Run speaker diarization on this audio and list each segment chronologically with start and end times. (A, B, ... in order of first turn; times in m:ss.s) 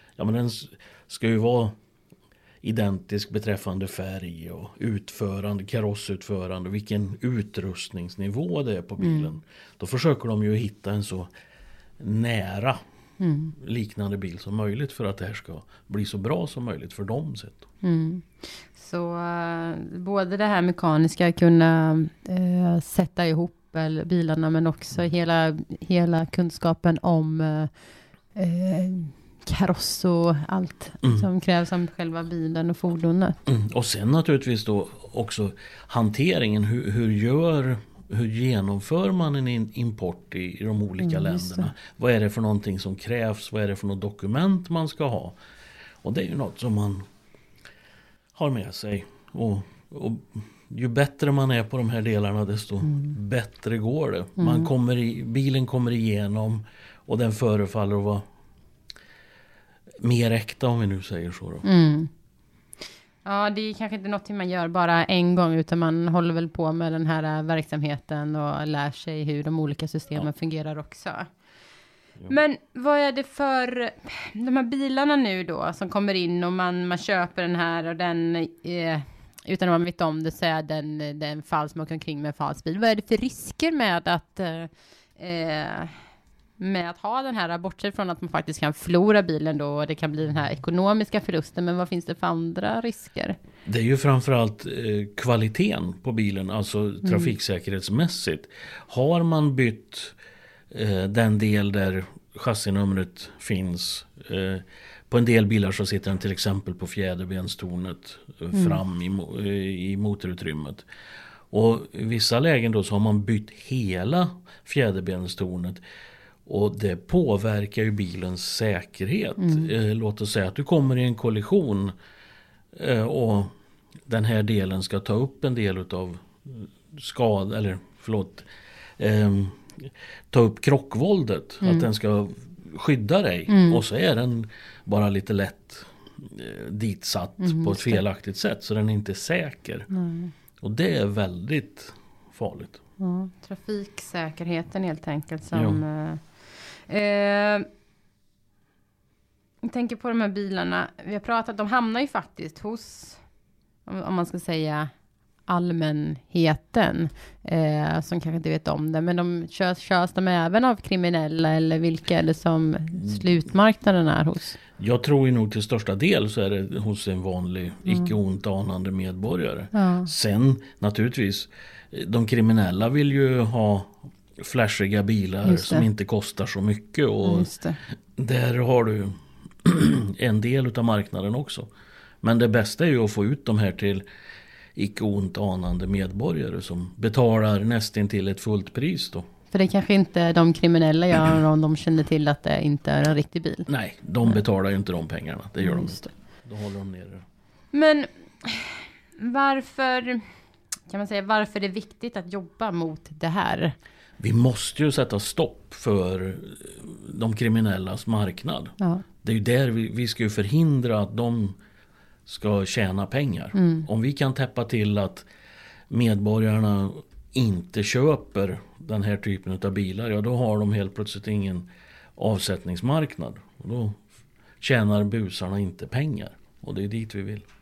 0:00.2-0:01.7 A
0:02.6-0:11.3 A
0:09.0-0:09.3 B
0:12.0-0:12.8 A
0:13.2-0:13.5 B
0:13.6-0:17.6 A
0:17.8-0:27.7 B
0:28.3-0:33.4 B
0:31.0-0:31.3 A
0:33.4-0:45.4 A
0:41.0-0:41.7 B
0:46.0-0:47.0 A
0:48.3-0:58.2 A
0:52.8-0:53.1 B
0:54.4-0:54.7 B
1:00.0-1:01.6 A
1:01.6-1:02.1 B
1:03.2-1:11.3 B
1:12.3-1:25.9 B
1:26.6-1:33.4 B
1:33.6-1:40.2 A
1:37.0-1:37.3 B
1:40.7-1:50.8 A
1:48.5-1:48.8 B
1:51.5-1:55.8 A
1:56.4-2:01.9 A
1:59.4-1:59.7 B
2:02.7-2:03.5 A
2:04.1-2:08.4 A
2:09.0-2:19.9 A
2:11.6-2:11.9 B
2:13.5-2:13.8 B
2:17.4-2:18.0 B
2:19.9-2:20.3 B
2:20.6-2:22.8 A
2:23.0-2:27.6 B
2:25.5-2:25.8 A
2:29.6-2:33.2 B
2:33.8-2:34.9 B
2:35.5-2:44.6 B
2:44.8-2:57.5 A
2:47.8-2:48.1 B
2:49.7-2:50.1 B
2:55.4-2:55.9 B
2:57.2-2:57.8 B
2:58.2-3:01.7 A
3:02.2-3:04.0 A
3:04.8-3:09.2 A
3:09.5-3:13.7 B
3:13.7-3:17.2 A
3:15.6-3:16.1 B
3:17.7-3:20.2 B
3:20.9-3:23.7 B
3:24.2-3:31.6 A
3:28.8-3:29.0 B
3:32.2-3:35.2 A
3:33.5-3:33.9 B
3:35.9-3:44.0 A
3:44.6-3:47.4 A